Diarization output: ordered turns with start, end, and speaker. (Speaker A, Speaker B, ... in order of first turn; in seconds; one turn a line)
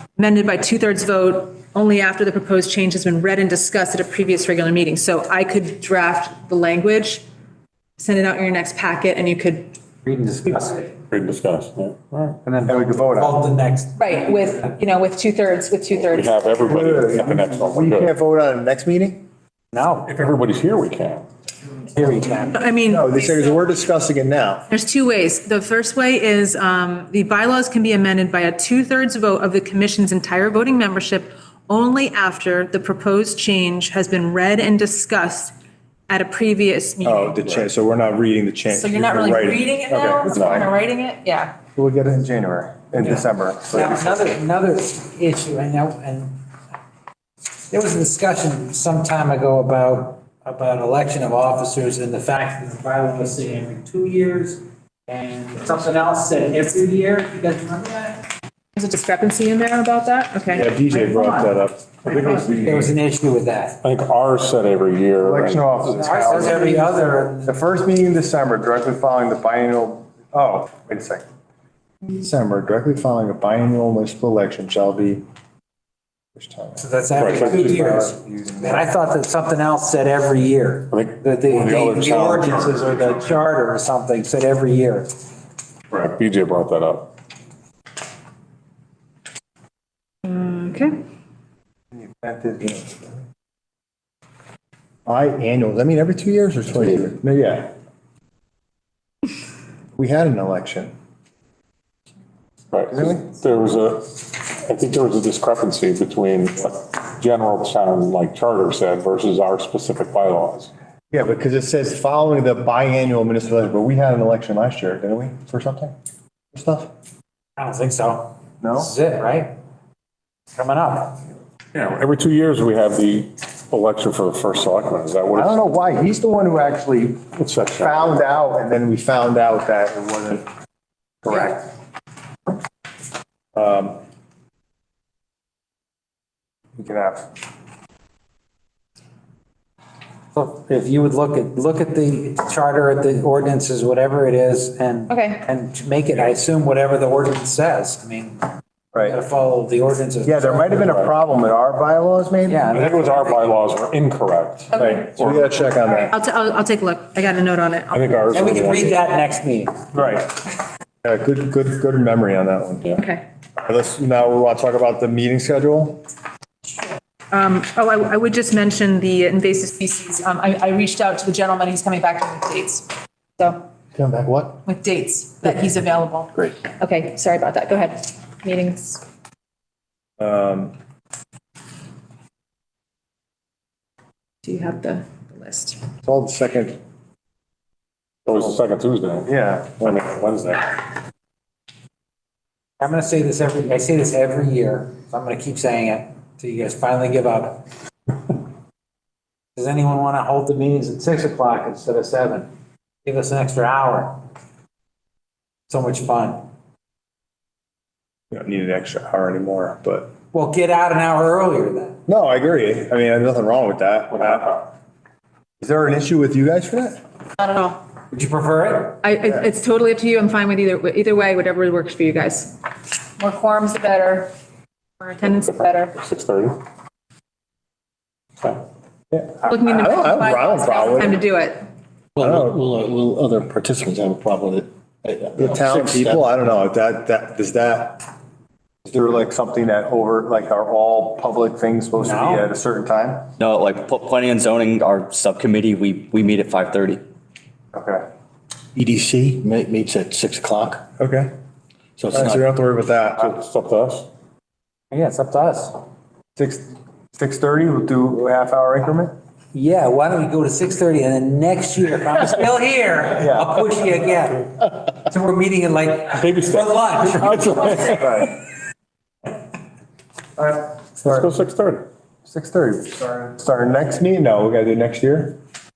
Speaker A: 0.1-7.2
Speaker A: 8.0-9.8
Speaker B: 10.0-10.9
Speaker C: 11.1-12.4
Speaker B: 12.4-14.7
Speaker D: 12.7-13.4
Speaker A: 13.9-16.4
Speaker C: 15.9-18.1
Speaker D: 16.6-19.2
Speaker B: 19.7-20.1
Speaker C: 20.1-21.2
Speaker B: 21.9-22.7
Speaker A: 22.5-23.6
Speaker D: 22.9-24.6
Speaker A: 24.7-35.5
Speaker A: 36.1-37.6
Speaker D: 37.0-40.7
Speaker A: 38.7-41.5
Speaker C: 40.3-40.7
Speaker D: 41.8-44.2
Speaker B: 43.0-46.4
Speaker B: 47.7-58.2
Speaker A: 58.8-60.9
Speaker D: 60.5-61.8
Speaker B: 61.1-61.5
Speaker C: 62.0-63.0
Speaker B: 62.3-63.8
Speaker C: 63.8-66.7
Speaker D: 65.2-71.2
Speaker B: 65.9-67.5
Speaker D: 72.1-75.2
Speaker D: 76.3-78.9
Speaker B: 76.8-85.1
Speaker C: 77.2-77.8
Speaker C: 80.9-83.3
Speaker C: 85.9-87.1
Speaker A: 90.2-91.0
Speaker D: 91.9-93.1
Speaker D: 95.0-97.7
Speaker D: 100.0-100.9
Speaker C: 102.7-110.7
Speaker D: 102.9-103.2
Speaker D: 111.1-115.9
Speaker D: 116.5-116.9
Speaker B: 117.6-119.5
Speaker D: 118.6-118.9
Speaker B: 120.5-121.2
Speaker C: 121.7-125.6
Speaker D: 125.3-127.2
Speaker C: 127.4-128.0
Speaker D: 127.8-130.4
Speaker D: 131.2-131.7
Speaker D: 133.5-134.0
Speaker D: 136.8-137.3
Speaker B: 140.3-148.4
Speaker A: 145.1-145.4
Speaker B: 148.9-151.0
Speaker D: 150.2-152.7
Speaker C: 150.8-151.1
Speaker B: 152.5-153.5
Speaker C: 152.7-155.5
Speaker A: 154.7-155.1
Speaker D: 154.7-156.1
Speaker A: 155.9-158.3
Speaker C: 157.9-159.0
Speaker B: 158.3-159.8
Speaker D: 159.9-160.4
Speaker D: 161.0-162.9
Speaker A: 162.9-163.2
Speaker D: 163.6-166.0
Speaker A: 167.3-172.9
Speaker D: 173.9-174.6
Speaker A: 174.6-179.0
Speaker D: 180.2-180.7
Speaker A: 184.4-185.8
Speaker D: 186.0-186.8
Speaker C: 188.2-190.8
Speaker D: 189.2-190.0
Speaker B: 192.8-197.6
Speaker B: 199.6-202.5
Speaker B: 203.0-204.2
Speaker B: 205.7-206.4
Speaker D: 208.3-210.1
Speaker B: 210.3-212.0
Speaker D: 212.1-214.7
Speaker D: 215.6-217.0
Speaker A: 217.4-217.8
Speaker B: 218.1-219.0
Speaker A: 219.0-222.6
Speaker A: 223.2-224.3
Speaker A: 225.0-225.9
Speaker C: 225.4-226.6
Speaker D: 229.1-231.2
Speaker A: 229.4-231.6
Speaker E: 232.2-236.3
Speaker D: 232.2-232.5
Speaker D: 235.4-238.0
Speaker D: 238.8-243.3
Speaker B: 242.0-242.5
Speaker F: 243.4-247.0
Speaker D: 247.7-248.1
Speaker E: 248.8-250.8
Speaker D: 251.0-251.3
Speaker E: 252.0-252.4
Speaker D: 252.1-253.3
Speaker C: 253.2-254.1
Speaker B: 254.9-255.8
Speaker D: 256.4-259.1
Speaker B: 259.5-267.5
Speaker D: 263.2-263.6
Speaker C: 266.2-268.2
Speaker D: 267.7-268.3
Speaker D: 270.4-271.3
Speaker C: 271.0-271.9
Speaker D: 272.2-275.4